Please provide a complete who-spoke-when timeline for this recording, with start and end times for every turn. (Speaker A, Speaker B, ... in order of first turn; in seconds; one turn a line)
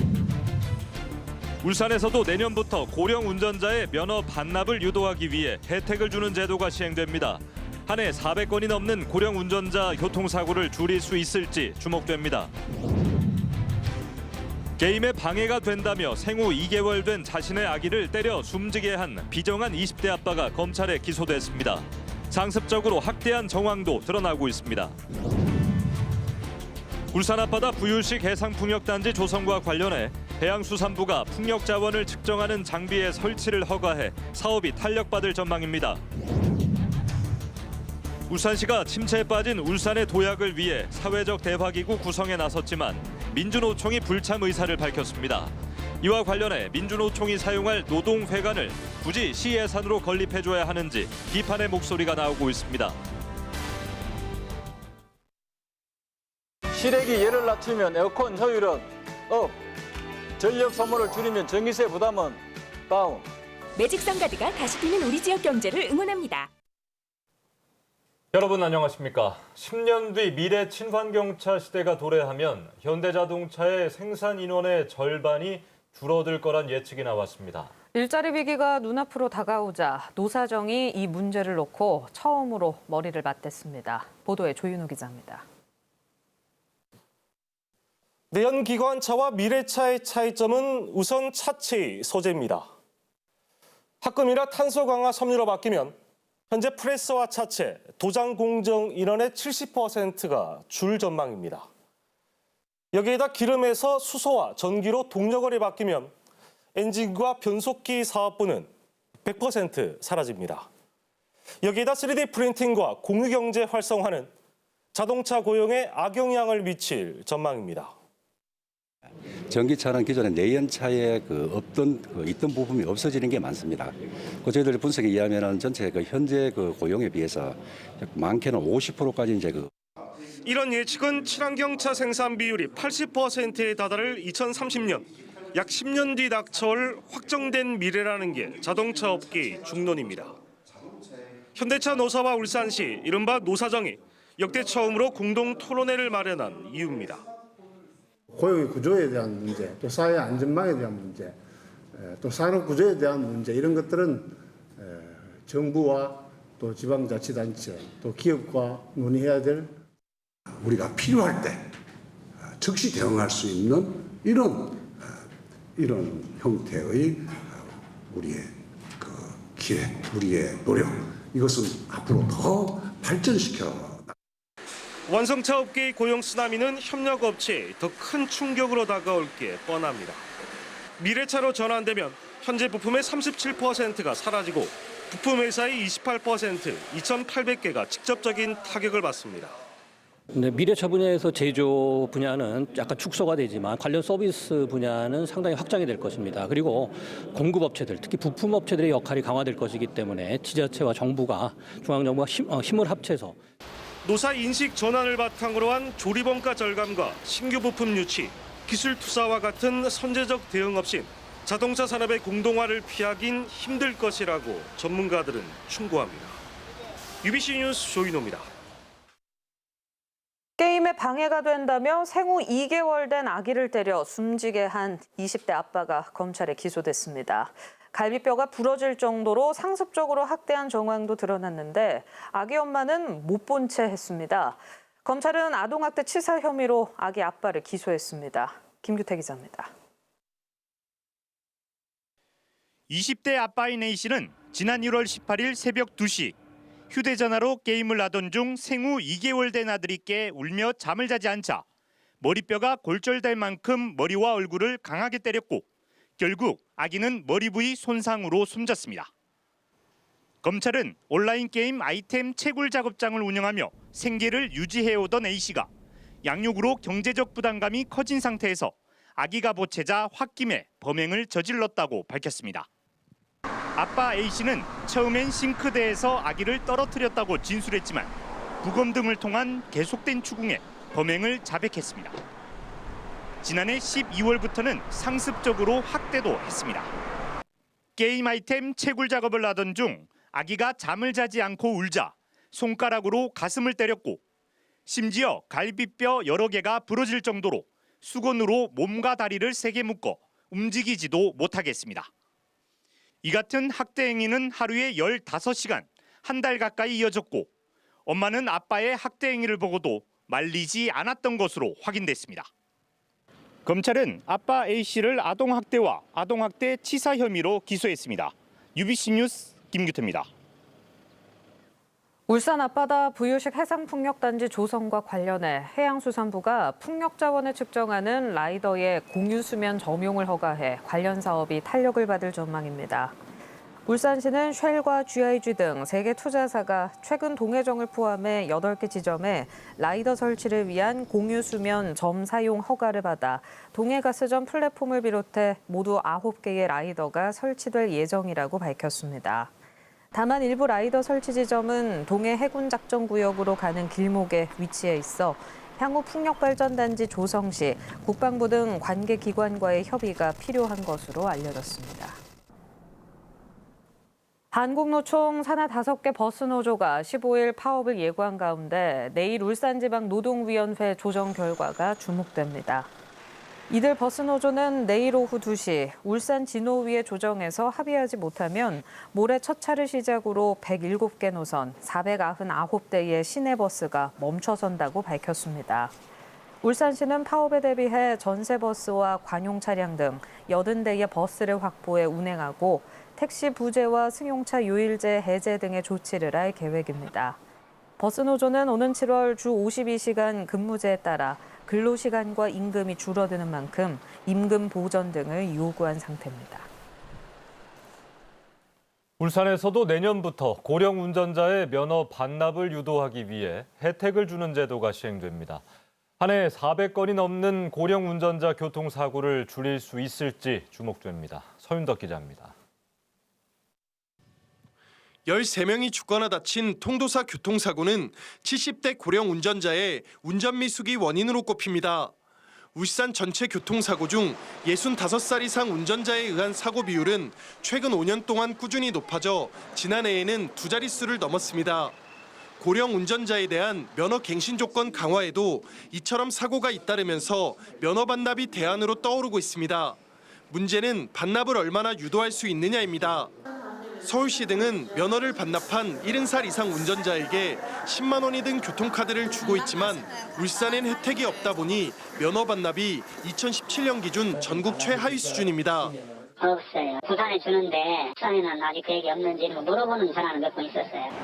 Speaker A: 1.6-12.5
Speaker A: 14.8-24.9
Speaker A: 27.1-36.0
Speaker A: 38.3-53.0
Speaker B: 56.7-59.6
Speaker B: 60.4-63.3
Speaker C: 63.8-66.5
Speaker A: 68.3-77.7
Speaker D: 77.9-85.4
Speaker E: 88.3-92.7
Speaker E: 94.0-96.0
Speaker E: 96.5-101.7
Speaker E: 102.9-106.1
Speaker E: 106.7-108.7
Speaker E: 109.2-110.7
Speaker E: 111.6-114.3
Speaker E: 114.9-117.9
Speaker F: 119.5-129.7
Speaker E: 130.4-140.4
Speaker E: 141.5-147.2
Speaker G: 148.3-151.4
Speaker G: 151.9-159.8
Speaker H: 160.6-161.7
Speaker H: 162.4-165.2
Speaker H: 165.8-174.1
Speaker E: 175.1-180.2
Speaker E: 181.0-189.6
Speaker I: 190.3-203.4
Speaker E: 204.0-216.4
Speaker E: 217.2-218.5
Speaker D: 220.6-239.7
Speaker J: 242.9-246.4
Speaker J: 246.9-251.6
Speaker J: 252.2-255.6
Speaker J: 256.2-259.1
Speaker J: 260.4-265.7
Speaker J: 266.2-272.7
Speaker J: 273.8-282.2
Speaker J: 283.4-286.9
Speaker J: 287.9-294.2
Speaker J: 294.9-302.1
Speaker J: 303.2-307.5
Speaker J: 308.1-312.5
Speaker J: 313.6-320.3
Speaker D: 322.3-333.1
Speaker D: 333.9-349.5
Speaker D: 350.1-362.2
Speaker D: 364.5-372.9
Speaker D: 373.7-385.9
Speaker D: 386.6-397.4
Speaker D: 398.0-406.7
Speaker A: 409.2-415.6
Speaker A: 416.2-422.5
Speaker K: 425.2-432.1
Speaker K: 432.7-441.9
Speaker K: 442.6-450.0
Speaker K: 450.5-453.3
Speaker K: 454.0-465.9
Speaker L: 466.4-471.1